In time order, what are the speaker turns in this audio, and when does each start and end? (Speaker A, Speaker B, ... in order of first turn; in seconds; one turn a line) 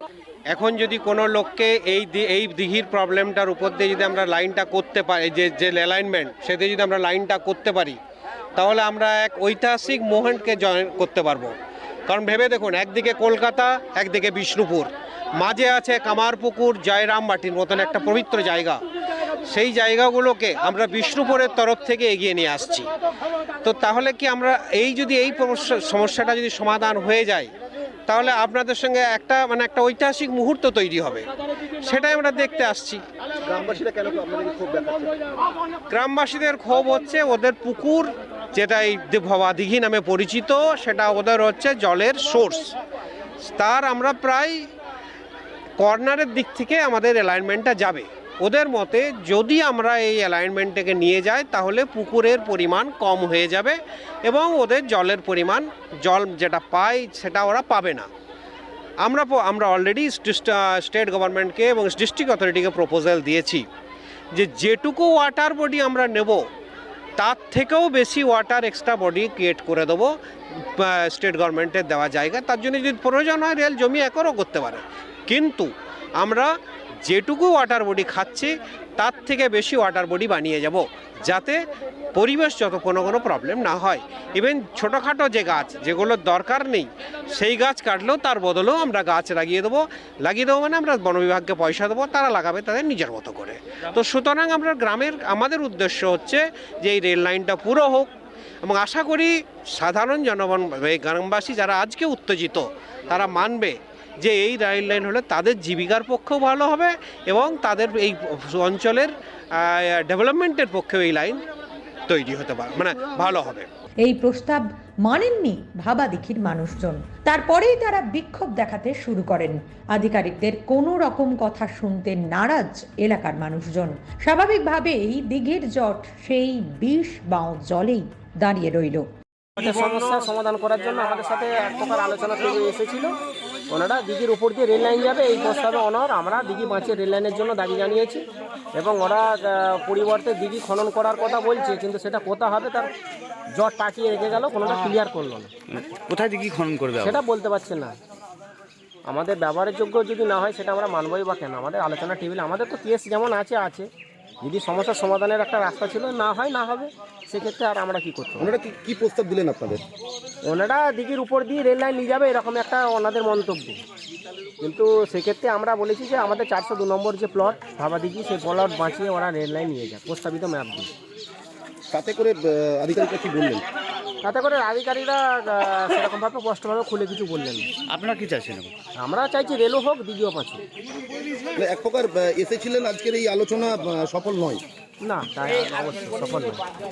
Speaker A: 0.5-8.0
Speaker A: 8.6-11.5
Speaker A: 12.1-18.8
Speaker A: 19.4-22.9
Speaker A: 23.6-27.5
Speaker A: 28.1-31.3
Speaker A: 31.8-33.0
Speaker B: 33.4-35.4
Speaker A: 35.9-42.7
Speaker A: 43.4-44.7
Speaker A: 45.8-58.1
Speaker A: 59.0-63.6
Speaker A: 64.3-66.5
Speaker A: 67.2-98.1
Speaker A: 98.6-111.4
Speaker A: 112.1-113.7
Speaker C: 114.0-129.1
Speaker D: 129.6-133.1
Speaker D: 133.7-142.9
Speaker D: 143.5-145.5
Speaker E: 145.7-147.2
Speaker D: 147.0-148.0
Speaker D: 149.1-153.9
Speaker D: 154.4-158.5
Speaker B: 158.4-159.8
Speaker D: 160.4-163.8
Speaker D: 164.6-170.9
Speaker B: 171.9-173.6
Speaker D: 174.2-177.7
Speaker E: 177.9-178.7
Speaker D: 179.0-180.6
Speaker B: 181.5-184.6
Speaker D: 185.0-186.6